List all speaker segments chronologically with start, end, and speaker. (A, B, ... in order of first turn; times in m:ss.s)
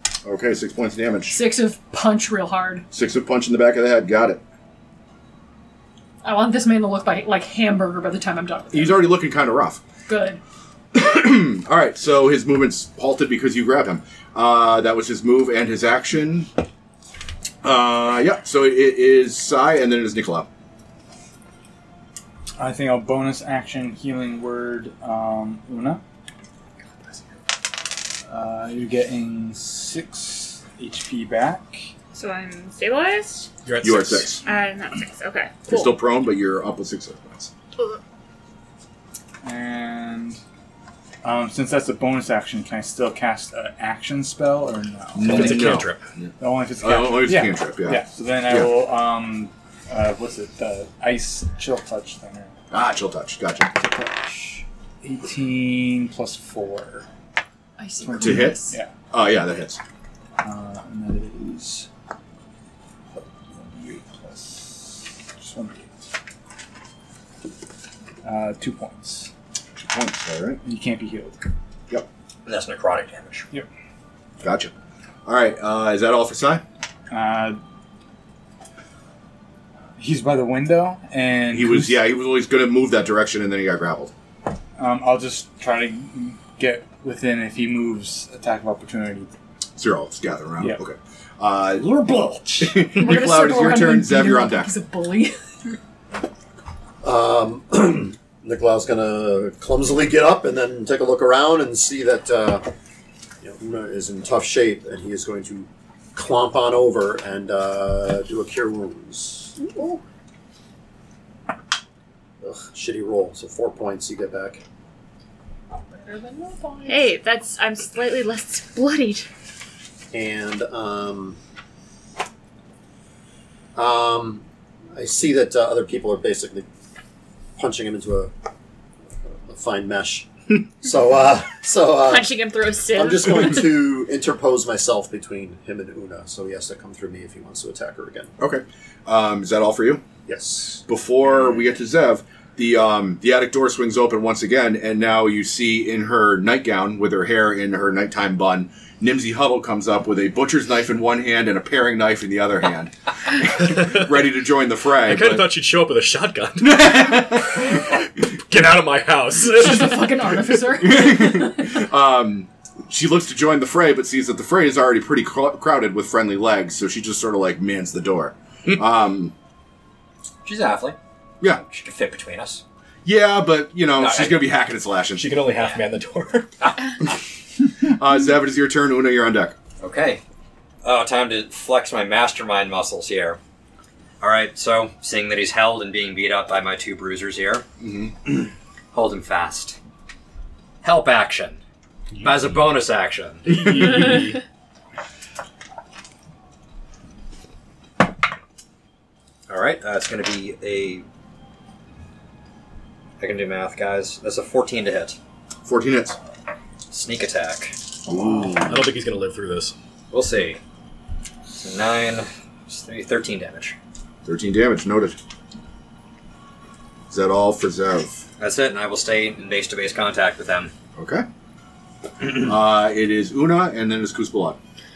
0:00.2-0:01.4 A
0:01.3-0:02.9 B
0:02.9-0:04.4 A
0:06.2-0:09.1 B
0:08.7-0:09.8 A
0:10.1-0:10.4 B
0:10.9-0:16.5 A
0:17.6-0:20.5 A
0:22.6-0:26.0 C
0:28.3-0:31.9 C
0:32.1-0:33.5 D
0:33.6-0:34.4 E
0:33.8-0:34.4 A
0:34.4-0:36.0 D
0:35.7-0:37.5 A
0:39.4-0:40.4 C
0:41.2-0:45.8 C
0:45.2-0:48.7 A
0:45.3-0:46.0 E
0:46.4-0:52.6 C
0:52.7-0:53.7 A
0:53.7-0:57.1 C
0:57.8-0:58.8 B
0:58.0-0:58.9 C
0:58.2-0:59.8 A
1:00.4-1:01.9 C
1:03.1-1:05.9 C
1:08.2-1:09.3 C
1:09.8-1:10.6 A
1:10.6-1:11.4 C
1:12.5-1:13.5 F
1:14.4-1:14.7 A
1:15.3-1:16.6 A
1:17.1-1:17.6 C
1:20.0-1:22.0 C
1:21.5-1:24.1 A
1:24.8-1:29.3 C
1:29.8-1:32.0 A
1:31.8-1:32.9 C
1:32.6-1:34.7 A
1:32.9-1:35.8 B
1:37.0-1:42.7 G
1:43.4-1:49.6 G
1:52.4-1:54.6 G
1:55.9-1:57.2 B
1:56.9-1:59.3 D
2:00.1-2:01.4 G
2:03.8-2:06.7 G
2:07.6-2:08.3 G
2:09.3-2:12.4 G
2:12.0-2:13.7 D
2:12.9-2:18.3 G
2:18.4-2:20.0 A
2:20.3-2:20.8 G
2:20.9-2:35.5 A
2:33.6-2:34.1 E
2:35.0-2:40.4 E
2:36.6-2:38.0 A
2:39.4-2:41.8 B
2:40.8-2:49.3 A
2:50.4-2:51.0 F
2:51.6-2:52.6 F
2:53.0-2:55.4 A
2:54.0-2:54.4 F
2:55.2-2:56.6 E
2:55.6-2:55.8 F
2:56.6-2:56.9 F
2:57.8-2:59.6 A
2:59.8-3:00.2 F
3:00.8-3:03.4 F
3:04.2-3:07.7 F
3:07.8-3:08.4 A
3:08.9-3:09.8 F
3:10.8-3:11.6 F
3:12.2-3:14.1 F
3:13.5-3:14.4 E
3:19.5-3:21.0 F
3:23.2-3:25.2 F
3:25.6-3:26.2 A
3:26.9-3:27.8 F
3:28.1-3:28.8 A
3:28.6-3:29.8 E
3:30.1-3:30.6 F
3:31.6-3:33.8 F
3:34.2-3:35.2 A
3:37.1-3:38.2 A
3:38.4-3:40.7 F
3:41.0-3:41.3 A
3:42.3-3:44.6 A